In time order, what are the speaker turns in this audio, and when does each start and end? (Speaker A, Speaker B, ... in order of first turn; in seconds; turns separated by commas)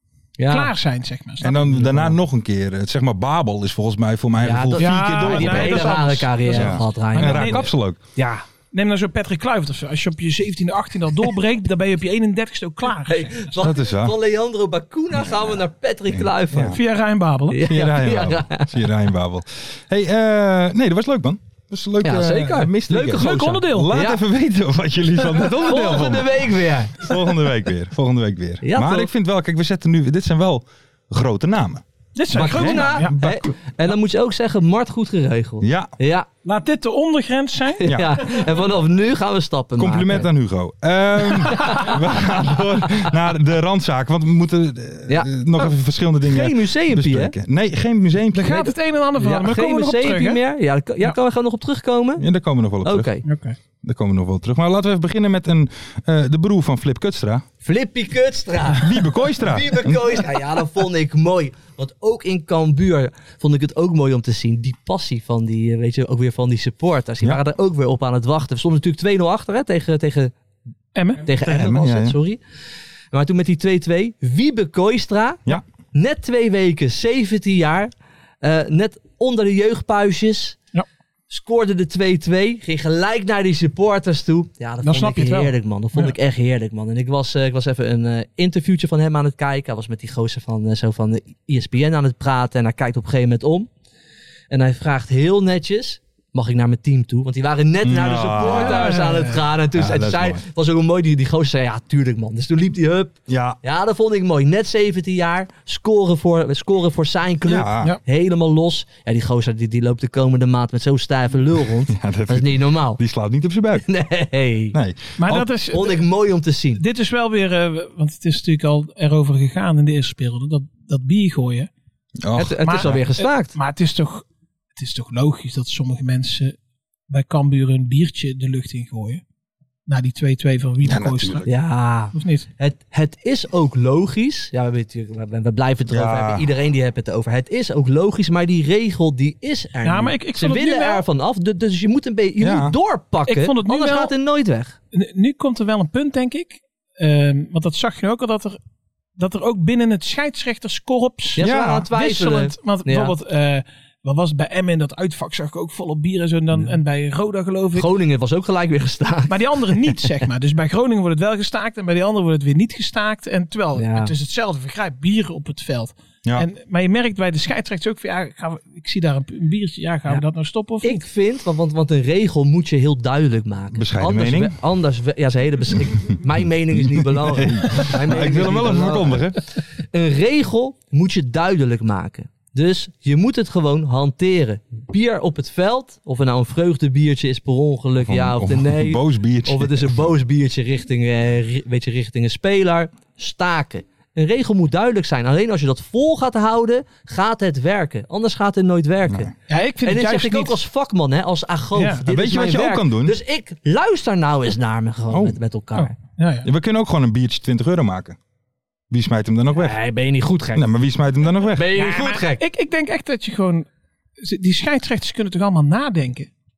Speaker A: 0.4-0.7, Speaker B: 0.5-2.1, Speaker C: 1.4-8.0, Speaker A: 4.4-8.4, Speaker B: 4.8-7.7, Speaker B: 8.7-13.6, Speaker A: 13.1-16.8, Speaker C: 13.6-14.1, Speaker C: 15.2-15.5, Speaker C: 16.1-16.8, Speaker B: 16.7-17.6, Speaker A: 17.5-18.7, Speaker C: 17.6-33.5, Speaker A: 22.0-24.2, Speaker B: 23.1-23.9, Speaker A: 25.6-27.1, Speaker A: 28.6-29.1, Speaker B: 32.1-33.1, Speaker A: 32.3-36.3, Speaker C: 35.6-35.9, Speaker B: 36.4-38.5, Speaker A: 37.8-40.3, Speaker C: 37.9-38.1, Speaker C: 39.8-48.7, Speaker A: 41.5-41.9, Speaker A: 45.1-45.4, Speaker A: 46.2-47.4, Speaker B: 48.3-50.4, Speaker A: 49.2-52.2, Speaker C: 52.2-53.1, Speaker A: 52.8-53.2, Speaker B: 53.2-53.5, Speaker C: 53.8-57.4, Speaker A: 57.6-70.3, Speaker C: 58.8-60.2, Speaker B: 70.9-71.2, Speaker A: 71.2-72.4, Speaker C: 71.4-72.2, Speaker A: 73.1-77.9, Speaker A: 78.4-80.6, Speaker A: 81.3-93.7, Speaker B: 84.8-86.1, Speaker A: 94.5-113.0, Speaker C: 97.8-99.0, Speaker B: 98.5-99.4, Speaker C: 99.7-100.4, Speaker C: 103.3-103.6, Speaker C: 107.4-108.0, Speaker C: 111.9-113.9, Speaker A: 113.7-114.8, Speaker C: 114.7-115.5, Speaker B: 115.2-116.0, Speaker A: 115.7-116.8, Speaker B: 116.8-121.7, Speaker C: 122.2-123.0, Speaker A: 122.3-123.5, Speaker B: 122.6-124.2, Speaker B: 124.8-126.5, Speaker B: 127.1-129.2, Speaker B: 129.9-131.5, Speaker C: 130.8-131.4, Speaker A: 131.4-144.8, Speaker B: 132.1-132.5, Speaker C: 135.9-136.4, Speaker B: 139.8-141.0, Speaker C: 142.4-142.7, Speaker B: 143.3-144.1, Speaker B: 144.9-148.6, Speaker B: 149.2-157.9, Speaker A: 151.3-153.1, Speaker C: 151.4-151.9, Speaker A: 157.7-160.0, Speaker B: 159.3-171.0, Speaker A: 163.8-164.1, Speaker A: 170.8-199.3, Speaker C: 173.7-174.6, Speaker C: 175.8-176.2, Speaker C: 176.7-179.4, Speaker C: 188.0-190.1, Speaker B: 199.5-200.6, Speaker A: 199.8-205.9, Speaker B: 201.7-202.0, Speaker C: 202.1-203.2, Speaker C: 205.1-205.4, Speaker B: 205.7-206.5, Speaker C: 206.4-208.2, Speaker C: 208.9-209.8, Speaker A: 209.5-210.7, Speaker C: 210.5-211.8, Speaker A: 211.5-212.4, Speaker B: 211.8-213.7, Speaker B: 214.2-216.3